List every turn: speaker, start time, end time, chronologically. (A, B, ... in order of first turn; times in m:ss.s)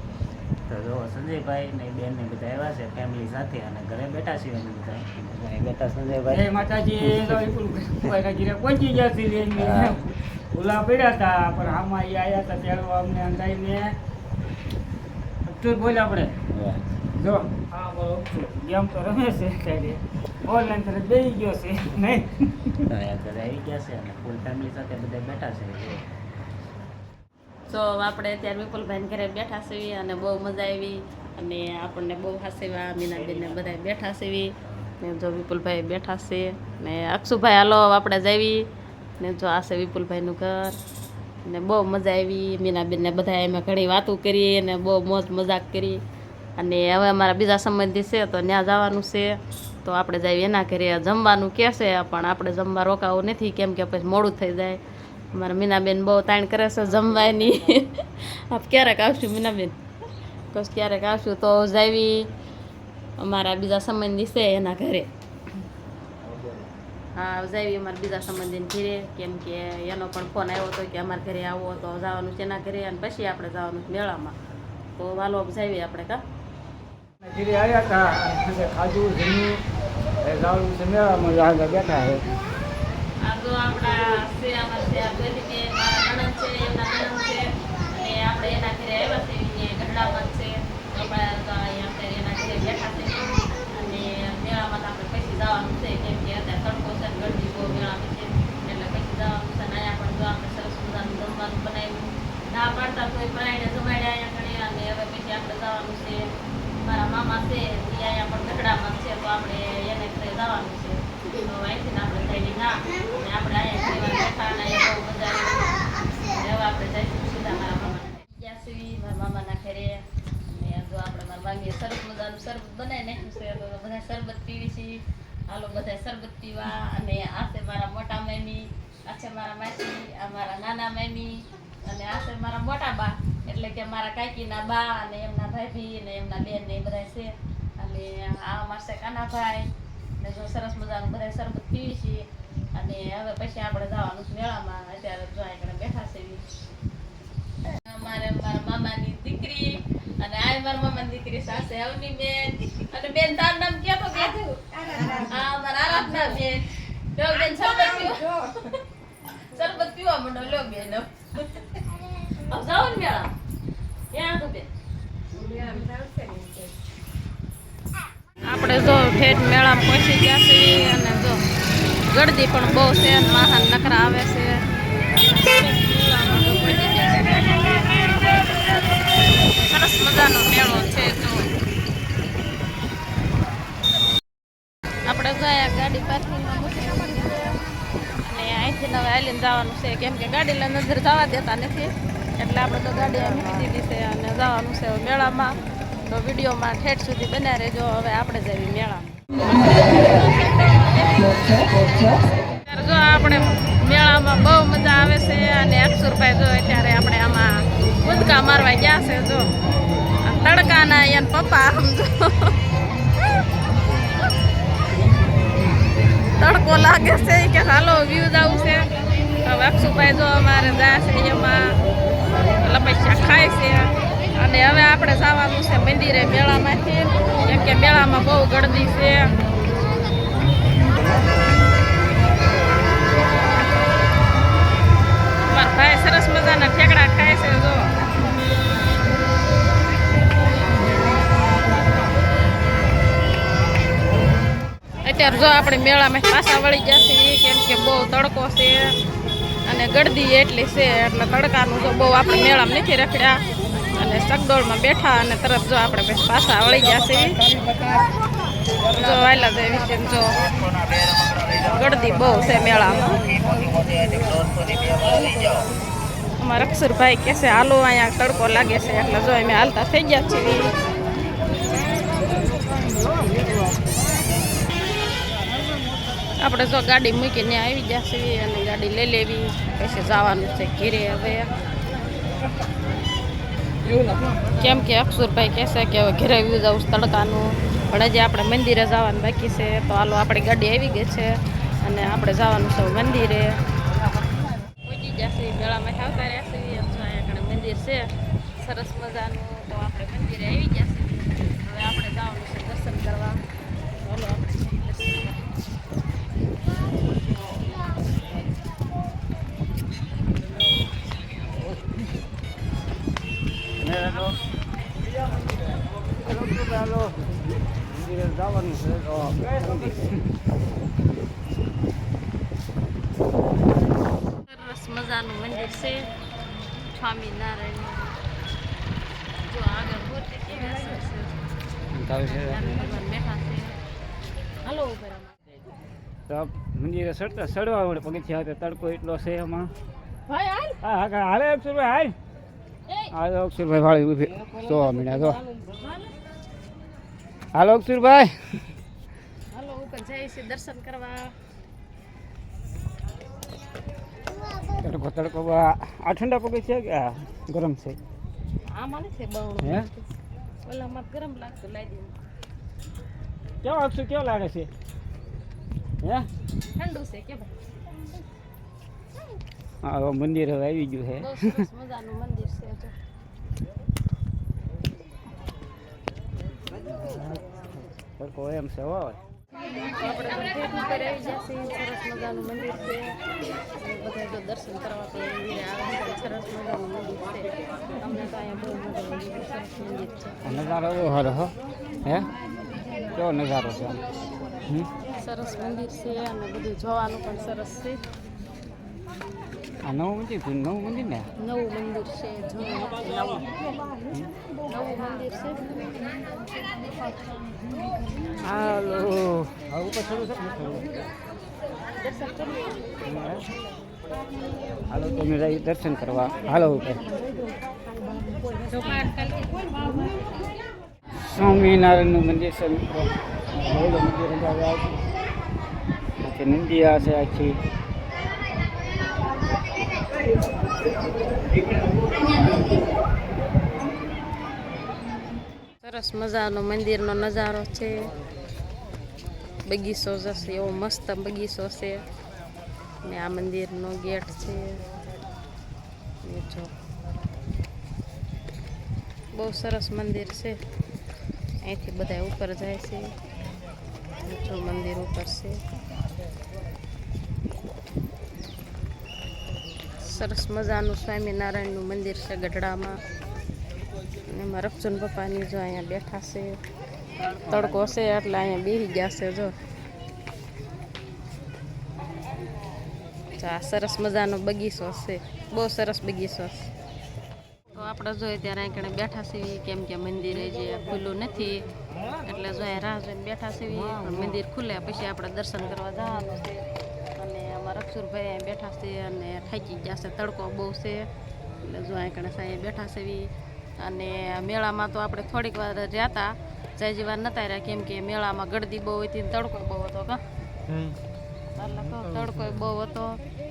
0:00.7-0:06.4 A
0:06.3-0:13.9 B
0:07.0-0:07.4 A
0:09.6-0:10.0 A
0:15.4-0:16.4 B
0:16.5-0:16.8 A
0:17.1-0:22.9 B
0:22.9-0:26.0 A
0:27.7-0:38.6 C
0:33.1-0:33.7 A
0:39.2-0:40.8 C
0:41.4-0:46.0 C
0:46.6-0:54.8 C
0:55.3-0:59.8 C
1:00.5-1:02.3 C
1:03.2-1:05.1 C
1:07.2-1:14.4 C
1:15.0-1:16.2 C
1:17.2-1:19.6 B
1:20.2-1:22.2 B
1:23.2-1:46.3 C
1:46.8-2:19.7 C
2:20.2-2:26.4 C
2:27.6-2:43.3 C
2:44.1-2:44.7 C
2:45.4-2:46.4 C
2:48.4-2:51.4 C
2:52.1-2:54.6 C
2:55.2-2:58.5 C
2:59.5-3:01.5 C
3:05.0-3:19.1 C
3:19.7-3:21.6 C
3:22.5-3:29.4 C
3:30.2-3:32.5 C
3:36.4-3:38.9 C
3:39.4-3:41.7 C
3:42.6-3:49.3 C
3:55.5-3:57.9 C
4:05.0-4:08.9 C
4:09.6-4:17.4 C
4:18.9-4:20.4 C
4:21.5-4:23.5 C
4:24.2-4:24.6 A
4:26.4-4:30.7 C
4:32.9-4:33.2 B
4:36.4-4:41.5 C
4:44.5-4:53.6 C
4:54.7-5:03.4 C
5:04.0-5:05.4 C
5:11.6-5:12.0 B
5:13.8-5:14.3 B
5:14.1-5:14.7 C
5:16.2-5:20.2 B
5:24.3-5:26.1 C
5:26.8-5:28.2 C
5:29.4-5:31.3 C
5:31.9-5:32.6 B
5:32.2-5:33.8 C
5:34.6-5:35.4 C
5:36.3-5:39.7 B
5:40.3-5:40.8 C
5:40.8-5:42.1 B
5:43.1-5:45.4 B
5:45.1-5:45.9 C
5:47.5-5:48.7 B
5:49.5-5:51.3 C
5:54.8-5:58.0 B
5:58.7-6:00.0 C
5:59.6-5:59.9 B
6:00.6-6:02.1 C
6:03.6-6:04.7 B
6:06.0-6:06.3 B
6:06.8-6:07.5 C
6:09.8-6:11.6 B
6:11.2-6:12.9 C
6:18.2-6:19.2 B
6:19.9-6:30.4 C
6:30.4-6:32.3 B
6:33.1-6:34.0 B
6:35.2-6:38.0 C
6:39.8-6:41.2 B
6:41.4-6:43.5 C
6:44.7-6:45.8 C
6:48.4-6:51.0 B
6:52.0-6:52.7 C
6:53.0-6:53.4 B
6:54.9-6:57.1 B
6:58.7-6:59.5 C
7:01.2-7:05.0 B
7:06.2-7:07.6 B
7:15.8-7:18.1 C
7:19.6-7:22.0 C
7:23.0-7:24.8 C
7:26.2-7:26.7 C
7:29.3-7:30.6 C
7:31.6-7:33.1 C
7:34.2-7:35.6 C
7:40.0-7:43.0 C
7:44.3-7:46.6 C
7:47.4-7:49.5 C
7:53.4-7:56.7 C
7:57.7-8:01.7 C
8:02.2-8:06.6 C
8:07.2-8:11.1 C
8:11.6-8:20.2 C
8:21.5-8:23.2 C